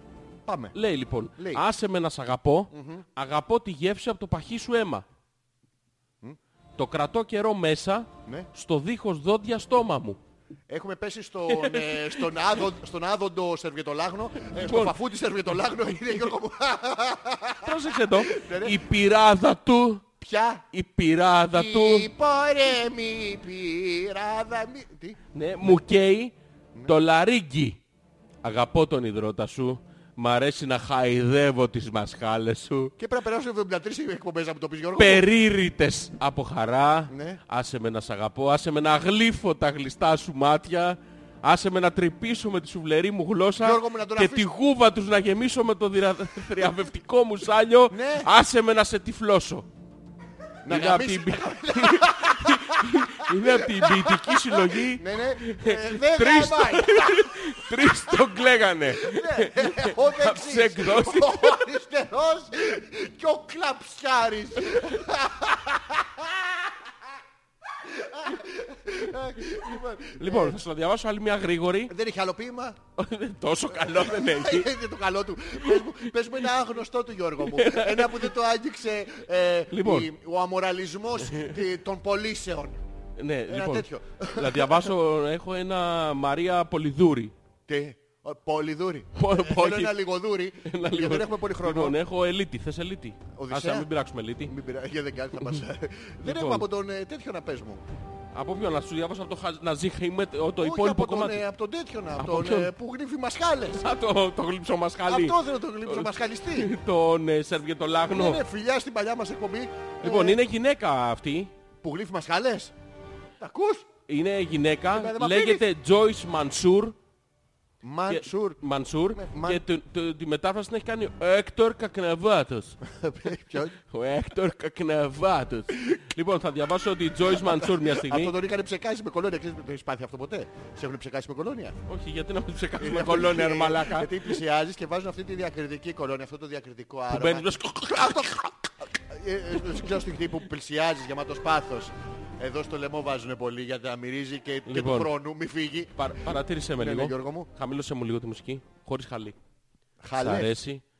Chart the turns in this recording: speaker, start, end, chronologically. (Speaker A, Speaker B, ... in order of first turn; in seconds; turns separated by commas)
Speaker A: 0.4-0.8, Speaker B: 0.7-5.0, Speaker A: 1.4-1.6, Speaker A: 2.7-3.0, Speaker B: 6.8-10.2, Speaker A: 10.7-18.8, Speaker B: 11.5-12.4, Speaker B: 14.6-14.9, Speaker B: 17.6-20.0, Speaker A: 20.2-20.6, Speaker B: 20.7-22.1, Speaker A: 21.5-25.8, Speaker B: 25.3-27.8, Speaker B: 28.4-32.9, Speaker A: 33.0-35.2, Speaker B: 35.0-49.7, Speaker A: 37.1-37.4, Speaker A: 43.6-44.5, Speaker A: 47.9-48.3, Speaker A: 50.6-58.2, Speaker B: 50.7-61.6, Speaker A: 58.9-66.9, Speaker A: 67.8-70.6, Speaker B: 70.1-71.9, Speaker A: 71.9-72.8, Speaker B: 73.0-74.7, Speaker A: 73.7-82.8, Speaker B: 75.6-76.0, Speaker B: 77.4-78.3, Speaker B: 79.7-80.1, Speaker B: 81.3-81.5, Speaker B: 83.2-87.3, Speaker A: 83.5-84.9, Speaker A: 87.7-92.0, Speaker B: 89.2-90.0, Speaker B: 90.6-94.5, Speaker A: 93.3-93.9, Speaker A: 94.5-97.8, Speaker B: 96.2-96.7, Speaker B: 98.3-101.4, Speaker A: 100.6-103.8, Speaker B: 102.2-102.7, Speaker B: 103.8-108.4, Speaker A: 105.0-106.7, Speaker A: 108.1-110.4, Speaker B: 110.0-111.5, Speaker A: 111.8-112.7, Speaker A: 113.4-113.9, Speaker B: 114.1-117.0, Speaker A: 114.9-115.7, Speaker A: 117.8-118.6, Speaker B: 118.1-122.8, Speaker A: 119.1-119.6, Speaker A: 122.8-123.8, Speaker B: 123.9-128.3, Speaker A: 127.2-131.8, Speaker B: 131.9-134.4, Speaker A: 132.8-146.0, Speaker B: 137.1-138.5, Speaker B: 144.7-145.1, Speaker B: 146.0-149.3, Speaker A: 146.8-147.5, Speaker A: 150.0-150.5, Speaker B: 150.2-150.8